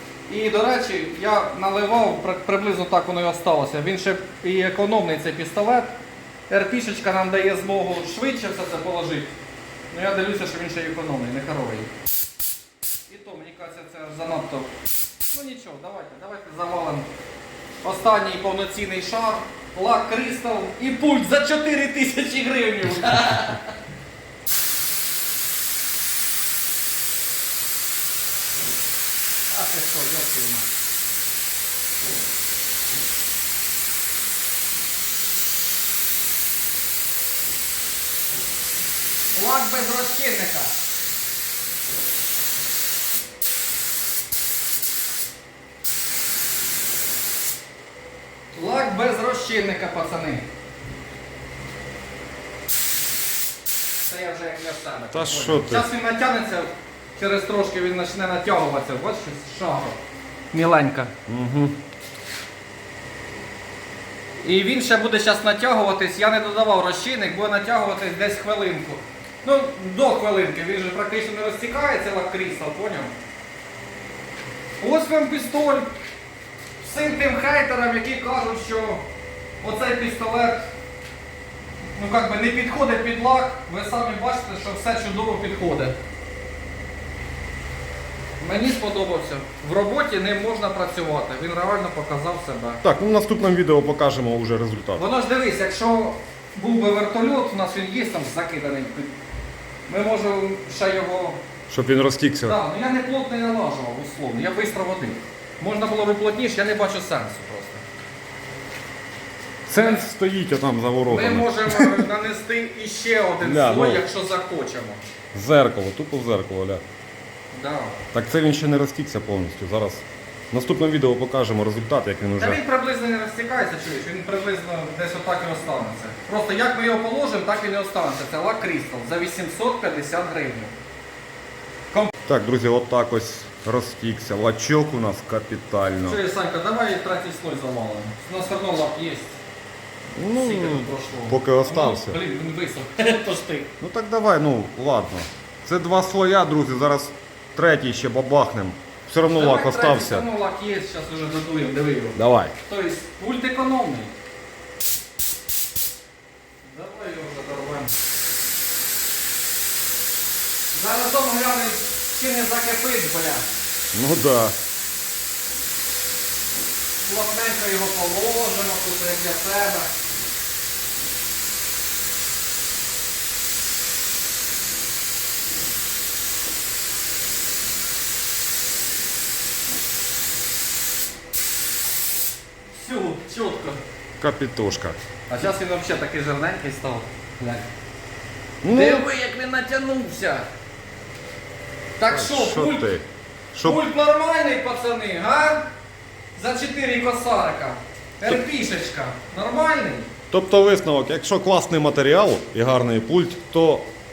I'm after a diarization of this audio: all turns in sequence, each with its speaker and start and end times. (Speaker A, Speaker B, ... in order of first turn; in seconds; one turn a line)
Speaker A: 0.3-9.3
Speaker A: 9.9-11.9
Speaker A: 13.1-14.7
Speaker A: 15.3-17.1
Speaker A: 17.8-23.7
Speaker A: 29.5-30.7
Speaker A: 39.3-40.7
Speaker A: 48.5-50.5
Speaker A: 54.0-60.0
Speaker B: 55.1-55.9
Speaker A: 60.5-61.1
Speaker B: 61.3-61.8
Speaker A: 64.4-73.1
Speaker A: 74.8-75.9
Speaker A: 76.8-79.0
Speaker A: 79.6-80.7
Speaker A: 82.0-86.0
Speaker A: 88.4-92.8
Speaker B: 92.8-95.0
Speaker A: 95.0-99.1
Speaker A: 99.9-101.4
Speaker B: 101.7-102.6
Speaker A: 102.5-107.8
Speaker B: 109.7-112.1
Speaker A: 109.8-110.0
Speaker A: 111.1-115.0
Speaker B: 113.4-114.0
Speaker B: 115.3-116.8
Speaker A: 117.5-118.0
Speaker B: 118.1-122.6
Speaker A: 122.4-130.7
Speaker B: 132.2-136.2
Speaker A: 136.1-139.3
Speaker B: 140.2-142.2
Speaker A: 140.3-143.7
Speaker B: 143.8-150.3
Speaker A: 149.3-154.1
Speaker B: 152.2-152.5
Speaker A: 156.6-157.9
Speaker A: 160.7-163.4
Speaker B: 163.9-164.5
Speaker A: 167.0-169.9
Speaker A: 182.7-183.8
Speaker B: 184.2-185.0
Speaker A: 185.3-187.7
Speaker B: 188.6-189.1
Speaker A: 188.7-190.5
Speaker A: 192.0-192.9
Speaker B: 192.1-193.8
Speaker A: 193.6-195.7
Speaker A: 196.3-200.1
Speaker B: 200.3-203.9